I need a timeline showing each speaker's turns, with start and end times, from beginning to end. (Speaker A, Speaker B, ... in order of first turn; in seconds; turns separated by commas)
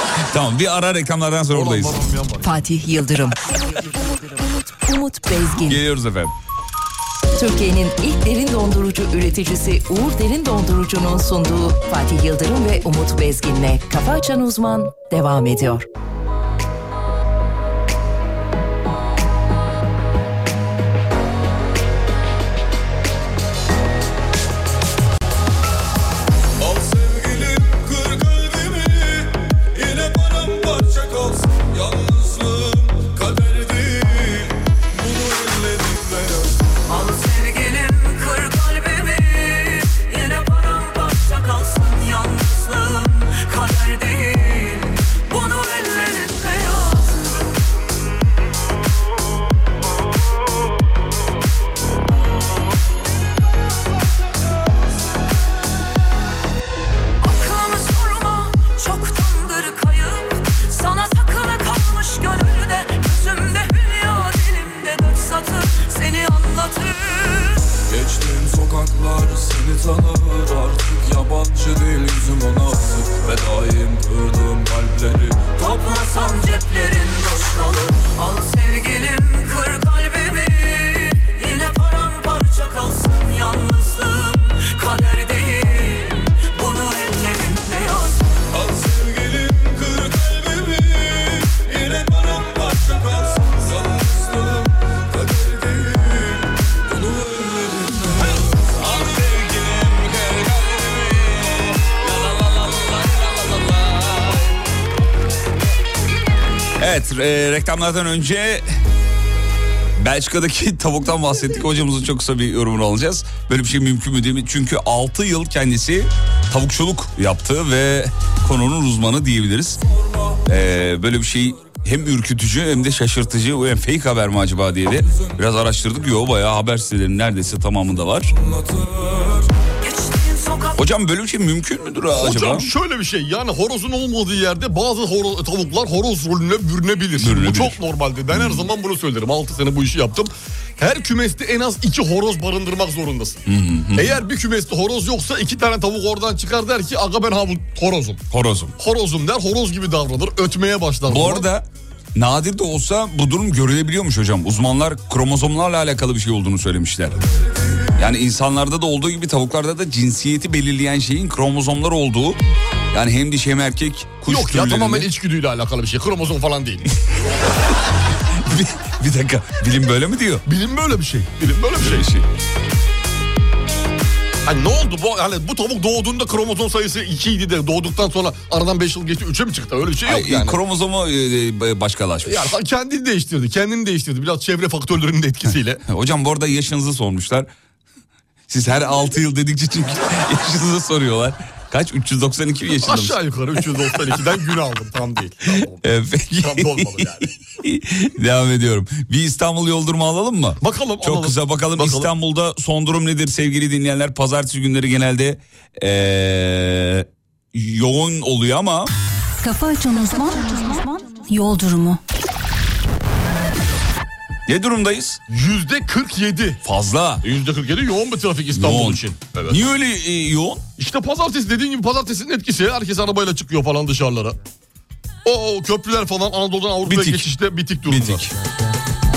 Speaker A: 0.2-2.1, Speaker B: 1.5-2.5, Speaker C: 2.4-5.8, Speaker A: 5.7-6.3, Speaker C: 7.3-15.8, Speaker A: 26.6-29.1, Speaker A: 30.4-31.8, Speaker A: 33.1-34.5, Speaker D: 36.9-47.2, Speaker D: 57.2-67.8, Speaker E: 67.9-72.6, Speaker E: 73.2-75.4, Speaker D: 75.5-88.2, Speaker A: 90.9-94.4, Speaker E: 96.9-97.9, Speaker A: 98.3-104.5, Speaker A: 106.8-108.7, Speaker A: 110.0-119.8, Speaker A: 120.4-128.3, Speaker D: 129.8-130.8, Speaker A: 130.8-132.7, Speaker B: 132.1-143.4, Speaker A: 137.2-137.8, Speaker A: 138.3-138.7, Speaker A: 143.5-144.2, Speaker B: 143.9-148.2, Speaker A: 148.3-148.7, Speaker B: 148.8-151.5, Speaker A: 151.1-157.2, Speaker A: 157.9-162.4, Speaker A: 162.9-165.1, Speaker B: 164.2-166.9, Speaker A: 168.3-170.4, Speaker B: 170.4-172.1, Speaker A: 171.8-172.3, Speaker B: 174.4-180.6, Speaker A: 180.0-182.6, Speaker B: 182.2-185.8, Speaker A: 185.8-187.5, Speaker A: 188.5-193.2, Speaker B: 192.8-195.8, Speaker A: 195.8-208.9, Speaker B: 196.4-197.3, Speaker B: 200.6-202.1, Speaker F: 209.4-212.0, Speaker D: 210.5-210.9, Speaker A: 214.5-215.2, Speaker B: 215.3-216.6, Speaker A: 216.6-217.2, Speaker B: 217.2-219.6, Speaker A: 218.5-220.6, Speaker B: 220.8-224.3, Speaker B: 225.2-228.2, Speaker A: 226.8-227.3, Speaker A: 227.8-228.3